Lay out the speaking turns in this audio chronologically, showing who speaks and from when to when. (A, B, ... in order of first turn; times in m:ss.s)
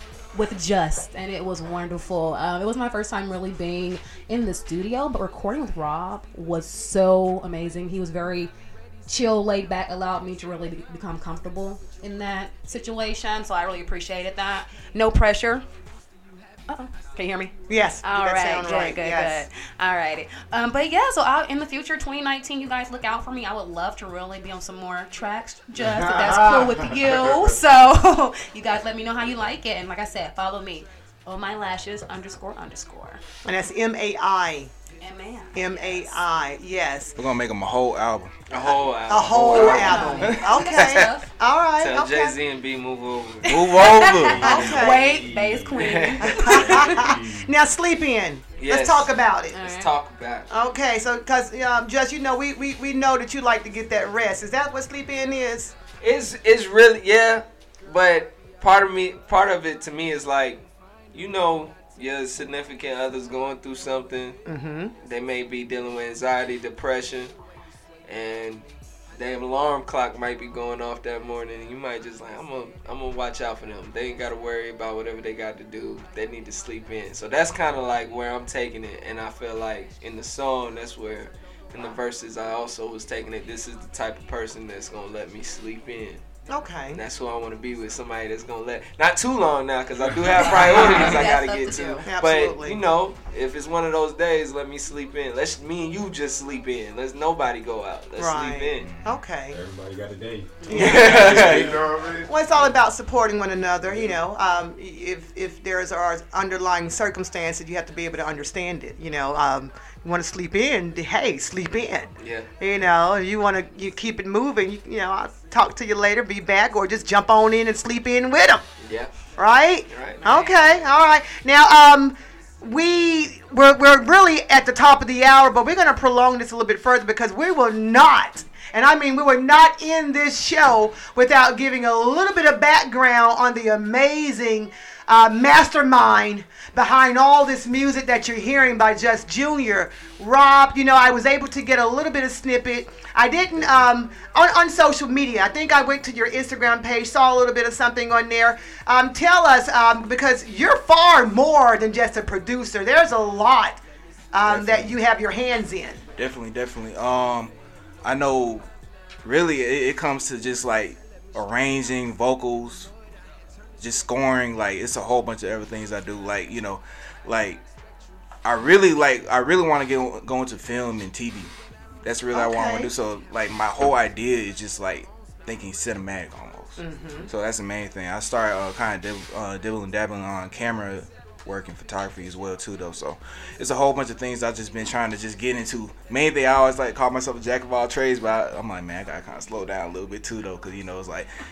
0:00.3-0:08.5 A
0:09.1-0:15.6 A
0:16.7-0:33.2 A
0:17.7-0:19.4 B
0:25.8-0:27.5 C
0:26.2-0:26.8 B
0:33.4-0:34.7 B
0:35.0-0:36.2 A
0:35.5-0:37.1 B
0:37.2-0:38.3 D
0:38.5-0:40.1 E
0:39.1-0:42.3 B
0:39.5-0:41.3 A
0:40.2-0:41.1 D
0:41.8-0:44.4 E
0:43.5-0:45.0 D
0:43.8-0:47.0 A
0:44.4-0:45.1 B
0:44.4-0:47.5 C
0:45.8-0:46.6 E
0:46.2-0:49.7 B
0:48.6-0:50.5 E
0:49.5-0:49.9 A
0:50.5-0:55.7 B
0:56.0-1:04.4 E
1:04.4-1:04.9 B
1:05.0-1:07.3 E
1:08.1-1:08.6 E
1:09.2-1:26.2 E
1:26.5-1:27.0 B
1:26.9-1:38.9 E
1:30.4-1:32.0 A
1:32.0-1:32.8 B
1:38.2-1:39.6 B
1:38.8-1:39.1 D
1:39.5-1:42.7 C
1:40.6-1:41.4 B
1:40.7-1:41.7 E
1:42.2-1:58.6 B
1:43.8-1:44.2 C
1:52.2-1:52.5 E
1:58.8-1:59.1 E
1:59.4-2:33.8 B
1:59.9-2:00.6 E
2:23.6-2:23.9 D
2:34.3-2:36.0 B
2:34.4-2:35.0 D
2:36.2-2:37.5 D
2:38.0-2:38.6 D
2:39.2-2:42.9 D
2:43.8-2:47.6 D
2:48.4-2:51.5 D
2:52.0-3:11.3 D
2:52.3-2:52.9 B
2:56.8-2:57.3 B